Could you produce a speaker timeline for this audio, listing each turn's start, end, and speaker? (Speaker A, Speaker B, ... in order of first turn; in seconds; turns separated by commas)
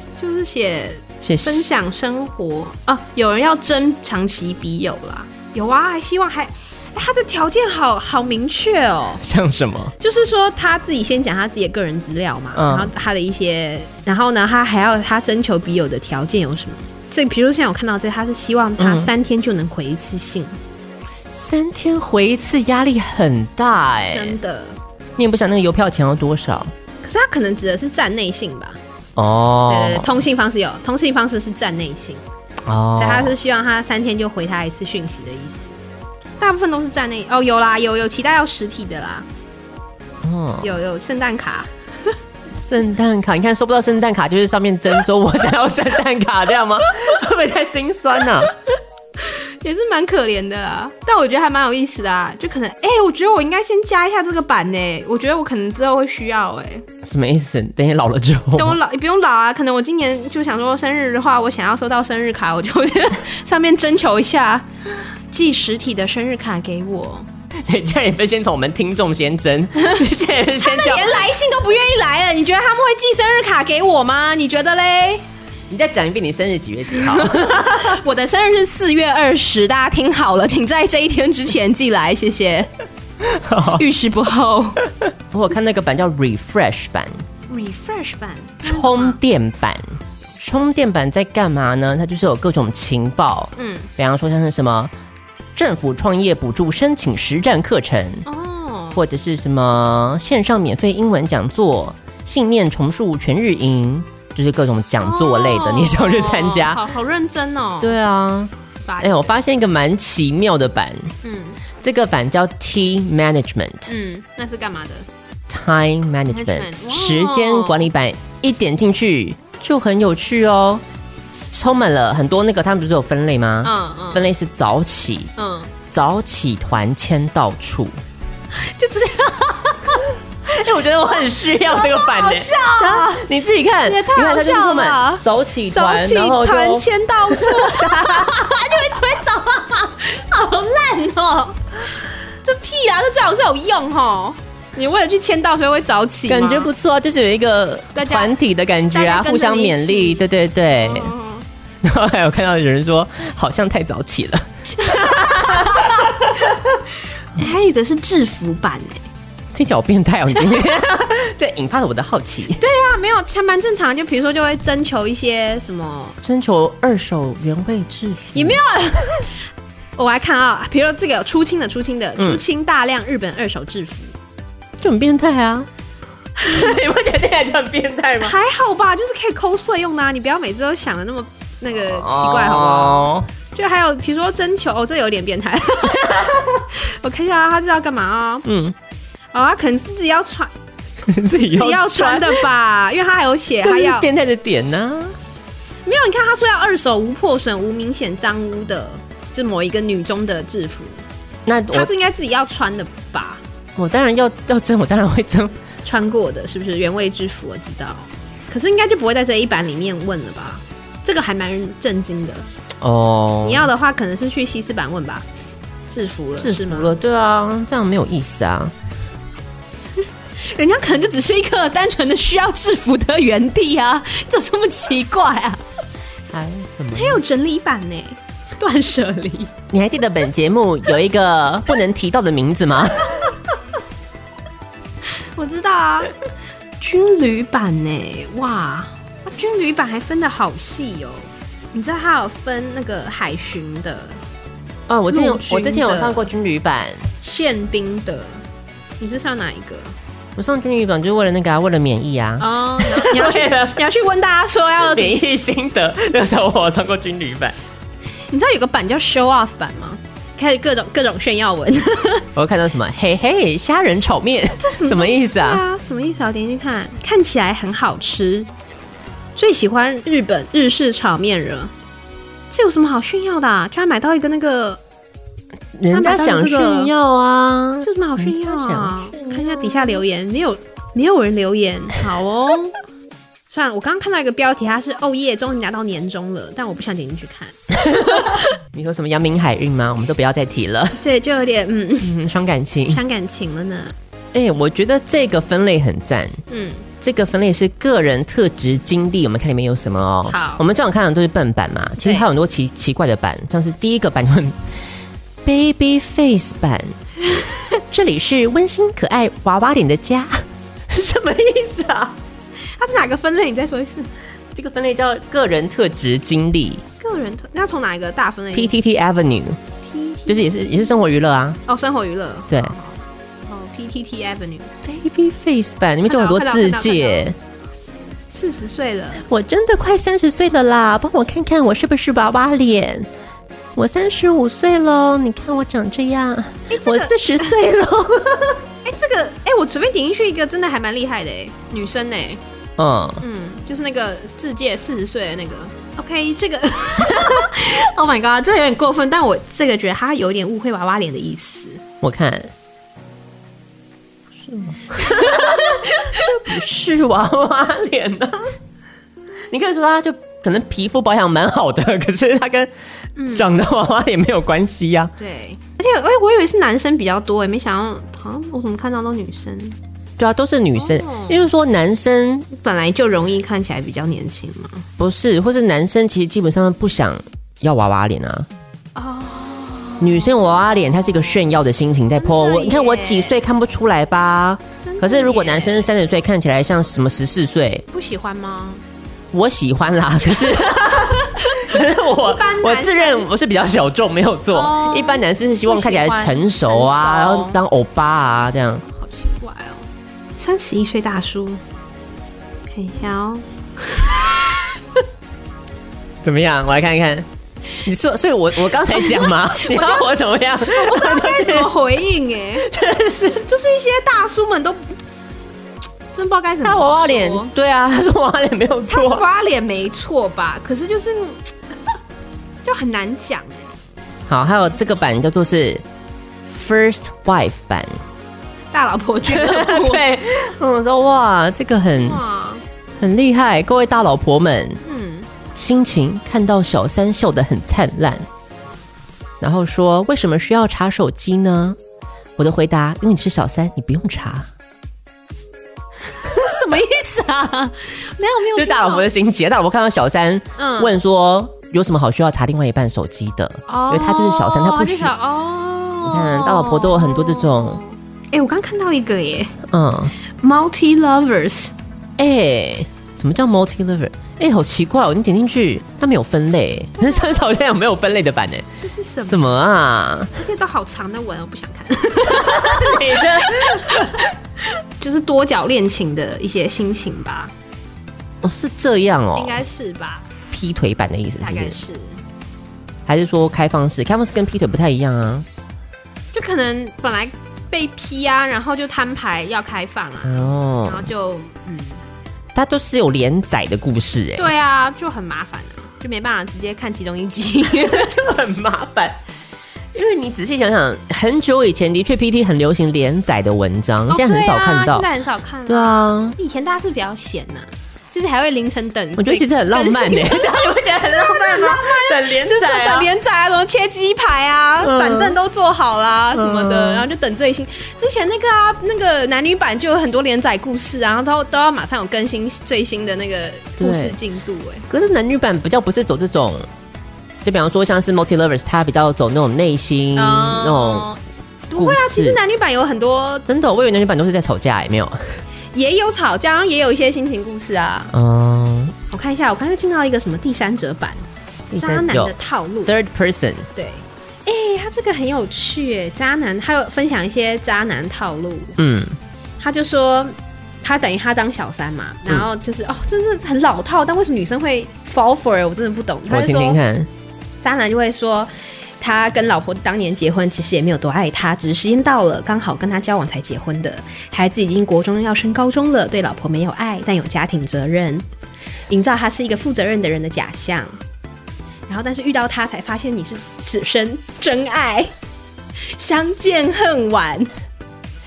Speaker A: 0.2-9.2, Speaker B: 1.2-1.7, Speaker B: 9.2-9.9, Speaker A: 10.0-20.6, Speaker B: 12.5-12.9, Speaker B: 18.8-19.1, Speaker B: 21.3-24.4, Speaker A: 24.1-24.8, Speaker B: 25.2-26.7, Speaker A: 27.0-28.8, Speaker B: 29.1-30.1, Speaker A: 29.7-32.2, Speaker B: 32.6-33.4, Speaker A: 32.9-35.7, Speaker A: 36.4-39.3, Speaker B: 40.2-40.7, Speaker A: 40.6-42.1, Speaker B: 42.5-48.5, Speaker A: 49.2-56.9, Speaker B: 57.0-58.8, Speaker A: 58.5-64.7, Speaker A: 65.3-67.3, Speaker B: 67.6-71.3, Speaker A: 69.8-75.2, Speaker B: 75.7-78.0, Speaker A: 77.0-82.7, Speaker B: 83.2-83.8, Speaker A: 83.7-84.8, Speaker B: 85.3-87.2, Speaker A: 87.5-89.2, Speaker B: 88.6-94.9, Speaker A: 93.5-93.9, Speaker B: 95.5-98.3, Speaker A: 98.2-99.0, Speaker B: 98.9-106.8, Speaker A: 105.0-108.0, Speaker B: 107.8-111.1, Speaker A: 108.8-109.3, Speaker A: 111.2-111.6, Speaker B: 111.8-113.9, Speaker A: 113.9-115.1, Speaker B: 115.5-125.3, Speaker A: 116.3-117.9, Speaker A: 123.6-124.2, Speaker A: 125.4-125.7, Speaker B: 125.9-128.0, Speaker A: 128.5-130.2, Speaker B: 130.4-138.3, Speaker A: 131.6-133.3, Speaker A: 133.8-146.7, Speaker B: 146.3-151.1, Speaker A: 147.9-148.4, Speaker A: 148.9-150.2, Speaker A: 150.8-151.4, Speaker B: 151.8-156.3, Speaker A: 154.8-156.6, Speaker A: 157.3-159.1, Speaker B: 159.5-162.6, Speaker A: 160.4-160.7, Speaker A: 162.6-166.2, Speaker B: 166.2-168.6, Speaker A: 168.3-169.4, Speaker A: 169.9-174.1, Speaker B: 174.8-175.7, Speaker B: 176.4-178.3, Speaker A: 178.2-188.4, Speaker B: 181.8-183.3, Speaker B: 185.9-186.6, Speaker B: 188.4-188.7, Speaker A: 189.3-190.5, Speaker B: 191.1-192.4, Speaker A: 191.5-194.1, Speaker B: 193.6-195.1, Speaker A: 195.8-201.0, Speaker B: 201.4-201.9, Speaker A: 201.7-203.4, Speaker B: 203.8-205.6, Speaker A: 205.8-212.5, Speaker B: 212.8-213.7, Speaker A: 213.4-215.3, Speaker A: 215.9-216.9, Speaker B: 216.4-218.7, Speaker A: 220.4-225.6, Speaker B: 226.3-227.2, Speaker A: 226.9-229.5, Speaker B: 229.7-233.2, Speaker A: 235.1-236.1, Speaker A: 236.8-244.2, Speaker B: 244.9-247.1, Speaker A: 245.1-246.3, Speaker A: 247.2-248.4, Speaker A: 249.0-249.9, Speaker B: 250.4-253.8, Speaker A: 252.4-255.2, Speaker B: 254.8-257.6, Speaker A: 258.3-262.3, Speaker B: 262.4-265.6, Speaker A: 264.6-268.5, Speaker A: 269.4-271.7, Speaker A: 272.5-274.8, Speaker B: 275.7-279.4, Speaker A: 275.9-276.9, Speaker A: 277.8-282.8, Speaker A: 283.5-288.4, Speaker B: 287.7-291.0, Speaker A: 291.0-292.2, Speaker B: 292.0-293.0, Speaker A: 292.9-293.9, Speaker B: 294.3-296.4, Speaker A: 296.5-296.9, Speaker B: 297.0-304.6, Speaker A: 300.3-300.6, Speaker A: 302.0-302.3, Speaker B: 305.4-307.0, Speaker B: 307.9-312.2, Speaker A: 312.7-314.1, Speaker B: 314.5-316.8, Speaker A: 317.0-318.7, Speaker B: 318.5-319.6, Speaker A: 319.8-320.9, Speaker B: 320.3-321.6, Speaker A: 321.7-324.7, Speaker B: 322.5-322.7, Speaker B: 324.8-327.4, Speaker A: 326.0-327.2, Speaker A: 328.3-329.2, Speaker B: 329.2-333.1, Speaker B: 333.8-338.6, Speaker A: 336.7-337.5, Speaker A: 338.8-342.4, Speaker B: 342.8-343.2, Speaker A: 343.2-351.8, Speaker B: 352.0-352.5, Speaker B: 354.4-358.5, Speaker A: 354.9-356.3, Speaker B: 359.5-362.7, Speaker A: 363.1-363.5, Speaker B: 363.3-365.1, Speaker A: 365.2-369.8, Speaker B: 370.2-372.5, Speaker A: 370.8-371.4, Speaker A: 372.5-374.9, Speaker B: 375.0-378.5, Speaker A: 378.9-380.4, Speaker B: 380.0-387.9, Speaker A: 382.1-383.4, Speaker A: 384.8-385.9, Speaker A: 387.9-388.8, Speaker B: 389.3-398.8, Speaker A: 390.4-393.3, Speaker A: 394.5-397.6, Speaker A: 398.9-401.6, Speaker A: 402.7-405.0, Speaker B: 406.2-407.3, Speaker B: 407.8-411.7, Speaker A: 408.8-412.7, Speaker B: 412.6-413.4, Speaker A: 413.4-415.0, Speaker A: 416.1-417.5, Speaker B: 416.6-419.2, Speaker A: 418.9-421.5, Speaker A: 422.6-423.7, Speaker B: 424.3-425.8, Speaker B: 426.5-428.0, Speaker A: 428.7-430.0, Speaker B: 429.3-432.2, Speaker A: 432.0-432.6, Speaker B: 433.0-434.8, Speaker A: 434.8-435.3, Speaker B: 435.5-438.2, Speaker B: 439.4-441.8, Speaker B: 442.4-444.5, Speaker A: 446.1-449.1, Speaker B: 448.5-455.1, Speaker A: 450.6-450.9, Speaker A: 453.7-459.6, Speaker B: 456.0-457.8, Speaker B: 459.7-460.1, Speaker A: 460.2-461.7, Speaker B: 462.2-468.7, Speaker A: 467.0-467.4, Speaker A: 468.8-469.5, Speaker B: 469.2-470.4, Speaker A: 470.4-474.2, Speaker B: 472.2-474.2, Speaker A: 474.8-477.5, Speaker B: 478.4-479.6, Speaker A: 479.4-480.3, Speaker B: 480.5-481.8, Speaker A: 481.4-482.2, Speaker B: 483.1-485.4, Speaker A: 486.3-492.0, Speaker B: 490.2-491.1, Speaker B: 492.5-494.5, Speaker A: 494.4-498.1, Speaker B: 497.7-499.2, Speaker B: 499.9-505.1, Speaker A: 504.1-524.9, Speaker B: 505.6-506.4, Speaker B: 509.2-513.1, Speaker B: 514.8-515.4, Speaker B: 516.3-517.0, Speaker B: 523.8-524.2, Speaker B: 524.9-526.7, Speaker B: 527.4-531.1, Speaker A: 530.1-533.5, Speaker B: 531.7-532.4, Speaker B: 533.5-535.4, Speaker A: 535.7-538.1, Speaker B: 538.1-539.0, Speaker A: 539.1-542.9, Speaker B: 541.7-542.3, Speaker B: 542.9-543.7, Speaker A: 543.7-548.8, Speaker B: 548.8-549.2, Speaker A: 549.6-556.8, Speaker B: 556.3-557.1, Speaker A: 557.6-568.3, Speaker A: 568.9-571.0, Speaker A: 571.9-575.1, Speaker A: 575.8-577.5